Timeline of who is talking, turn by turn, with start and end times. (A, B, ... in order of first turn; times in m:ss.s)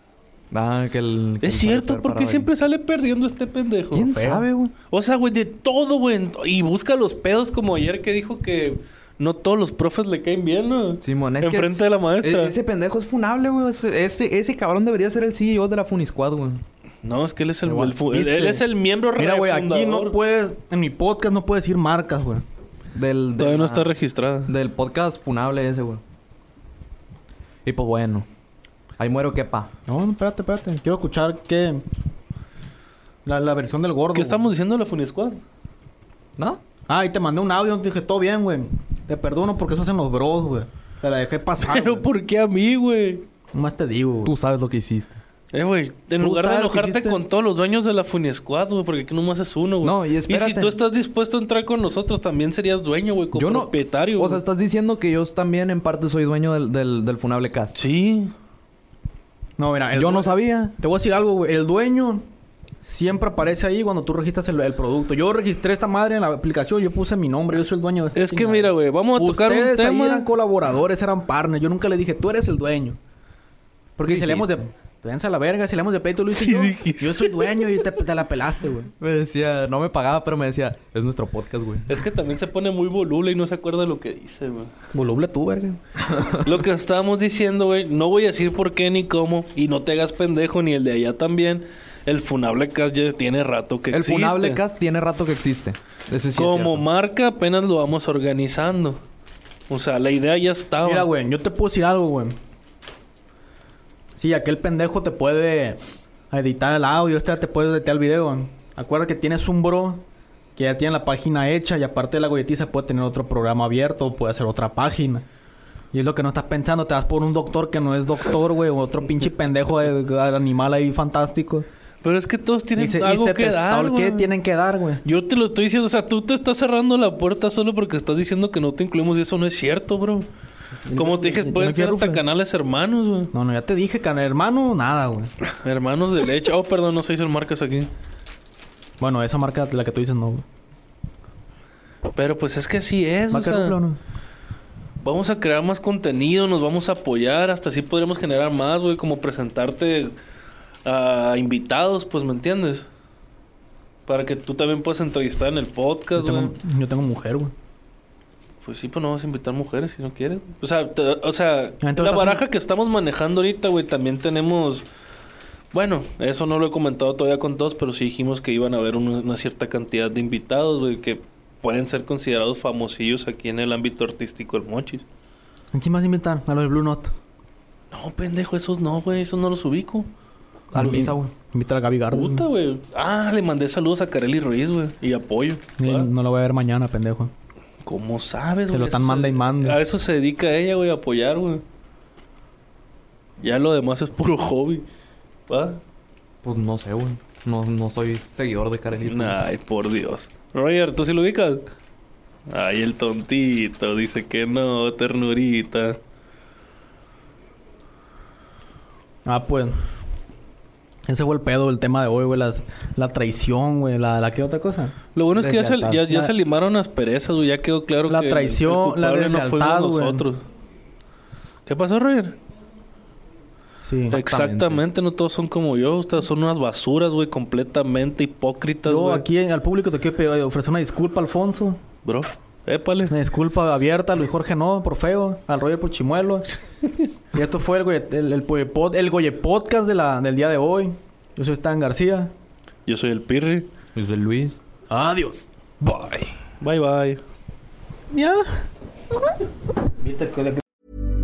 0:00.5-0:02.5 A
0:01.4-0:04.1 B
0:03.9-0:04.7 A
0:04.0-0:04.5 C
0:04.9-0:12.6 B
0:11.0-0:16.6 A
0:17.0-0:20.2 B
0:17.6-0:22.4 C
0:23.0-0:23.9 A
0:23.4-0:24.5 B
0:24.5-0:26.0 A
0:27.6-0:28.3 A
0:29.0-0:29.7 A
0:29.9-0:31.8 C
0:33.2-0:34.5 C
0:34.2-0:35.4 B
0:36.9-0:42.1 C
0:41.6-0:43.2 B
0:43.5-0:44.4 C
0:44.2-0:45.2 A
0:45.5-0:54.4 B
0:46.2-0:47.2 C
0:49.8-0:50.7 A
0:53.4-0:57.8 A
0:57.8-0:58.3 B
0:59.6-1:02.3 C
1:00.0-1:00.7 A
1:02.8-1:13.0 C
1:08.2-1:10.3 B
1:14.0-1:18.9 C
1:14.0-1:14.5 A
1:16.3-1:17.8 B
1:19.0-1:22.0 A
1:21.9-1:24.7 B
1:24.9-1:25.8 C
1:26.0-1:26.6 A
1:26.4-1:34.6 B
1:33.9-1:36.8 A
1:36.4-1:39.0 B
1:39.7-1:41.1 B
1:40.8-1:42.4 C
1:44.2-1:45.8 C
1:46.3-1:50.0 C
1:50.6-1:55.2 C
1:55.9-2:01.7 C
2:02.0-2:04.3 B
2:02.8-2:05.0 C
2:05.0-2:10.3 B
2:10.9-2:12.2 C
2:11.0-2:13.3 B
2:13.3-2:15.3 C
2:15.5-2:17.9 B
2:19.0-2:20.4 C
2:22.2-2:23.8 B
2:23.3-2:24.0 C
2:25.0-2:30.1 B
2:30.8-2:32.8 B
2:34.1-2:36.5 B
2:36.2-2:37.5 C
2:38.6-2:44.8 B
2:41.8-2:42.4 C
2:45.7-2:55.0 B
2:55.7-2:57.1 C
2:57.9-3:00.1 B
3:00.7-3:01.1 B
3:00.7-3:01.2 A
3:00.7-3:02.5 C
3:02.1-3:06.1 B
3:05.8-3:07.3 C
3:07.8-3:11.6 B
3:08.7-3:09.8 C
3:13.4-3:14.9 B
3:15.5-3:15.8 B
3:16.4-3:19.4 A
3:19.1-3:21.6 B
3:22.5-3:26.0 B
3:29.2-3:29.8 C
3:31.1-3:35.0 C
3:35.2-3:40.4 B
3:35.4-3:36.0 A
3:38.1-3:40.3 C
3:41.7-3:42.4 B
3:43.8-3:44.2 C
3:44.1-3:44.8 A
3:44.1-3:49.2 B
3:48.9-3:51.8 C
3:52.0-3:53.2 B
3:53.1-3:56.5 C
3:57.3-4:02.3 C
4:02.9-4:03.7 B
4:04.0-4:04.6 A
4:04.9-4:06.3 C
4:06.6-4:07.2 B
4:08.1-4:08.6 C
4:10.0-4:10.6 C